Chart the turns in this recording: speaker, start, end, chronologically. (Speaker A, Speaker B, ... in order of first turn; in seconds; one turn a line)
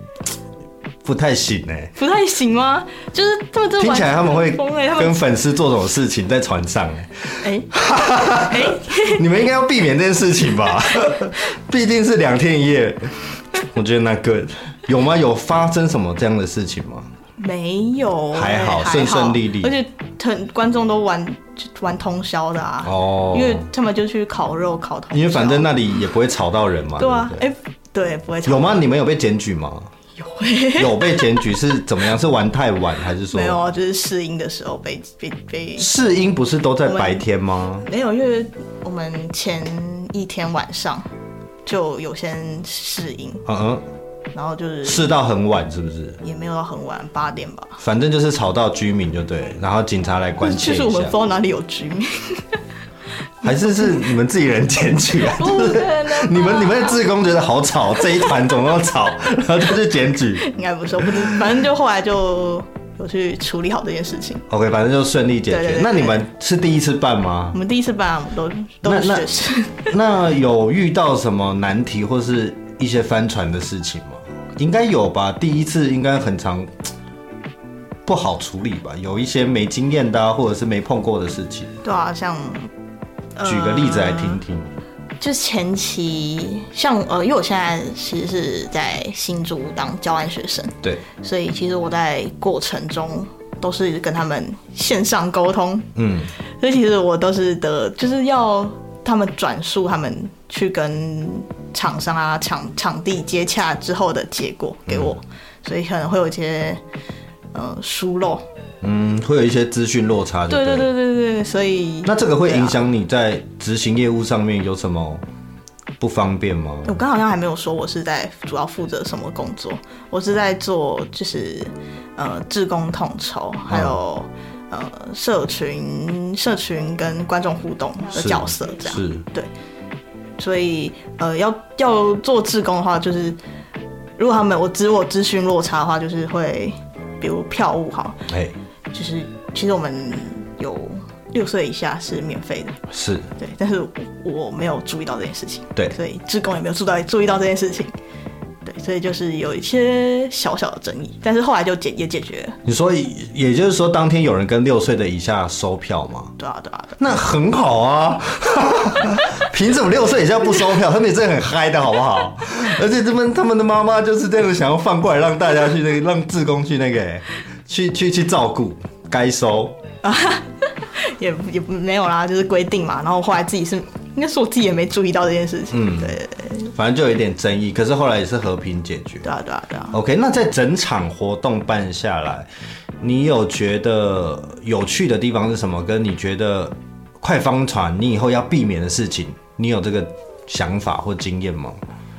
Speaker A: 1.0-1.9
Speaker B: 1.9-5.2
Speaker A: 3.8-17.1
Speaker B: 7.4-9.2
Speaker B: 17.4-25.7
Speaker A: 18.3-19.7
Speaker A: 22.8-23.6
Speaker A: 25.1-27.4
Speaker B: 27.0-28.8
Speaker A: 28.4-29.9
Speaker B: 30.2-31.8
Speaker A: 30.8-33.6
Speaker B: 33.3-36.2
Speaker A: 35.8-37.9
Speaker B: 36.8-37.2
Speaker B: 37.8-41.1
Speaker B: 41.6-43.4
Speaker A: 43.5-43.8
Speaker B: 44.3-45.1
Speaker A: 44.8-46.2
Speaker B: 46.2-47.8
Speaker A: 47.8-51.1
Speaker B: 50.4-52.6
Speaker A: 53.4-61.5
Speaker B: 53.4-54.0
Speaker B: 55.3-57.0
Speaker B: 60.4-64.4
Speaker A: 64.5-67.6
Speaker B: 65.5-66.2
Speaker B: 67.5-69.9
Speaker A: 68.8-69.3
Speaker A: 69.9-76.7
Speaker A: 78.0-81.7
Speaker B: 81.8-82.7
Speaker B: 83.3-84.4
Speaker A: 83.4-84.7
Speaker B: 85.2-95.9
Speaker A: 96.0-96.3
Speaker B: 96.6-106.8
Speaker A: 104.9-105.1
Speaker B: 107.5-108.4
Speaker A: 108.8-110.9
Speaker B: 110.5-112.8
Speaker A: 112.0-115.2
Speaker A: 116.0-117.0
Speaker B: 116.8-129.5
Speaker A: 123.7-123.9
Speaker A: 128.2-129.2
Speaker B: 130.4-133.4
Speaker B: 134.2-138.2
Speaker A: 138.3-138.6
Speaker B: 138.9-142.8
Speaker A: 142.9-143.3
Speaker B: 143.4-147.9
Speaker B: 148.6-152.6
Speaker A: 152.6-156.3
Speaker B: 156.4-157.0
Speaker A: 157.0-169.8
Speaker B: 170.0-176.7
Speaker A: 175.7-179.3
Speaker B: 179.2-180.0
Speaker A: 179.9-182.5
Speaker A: 183.0-191.8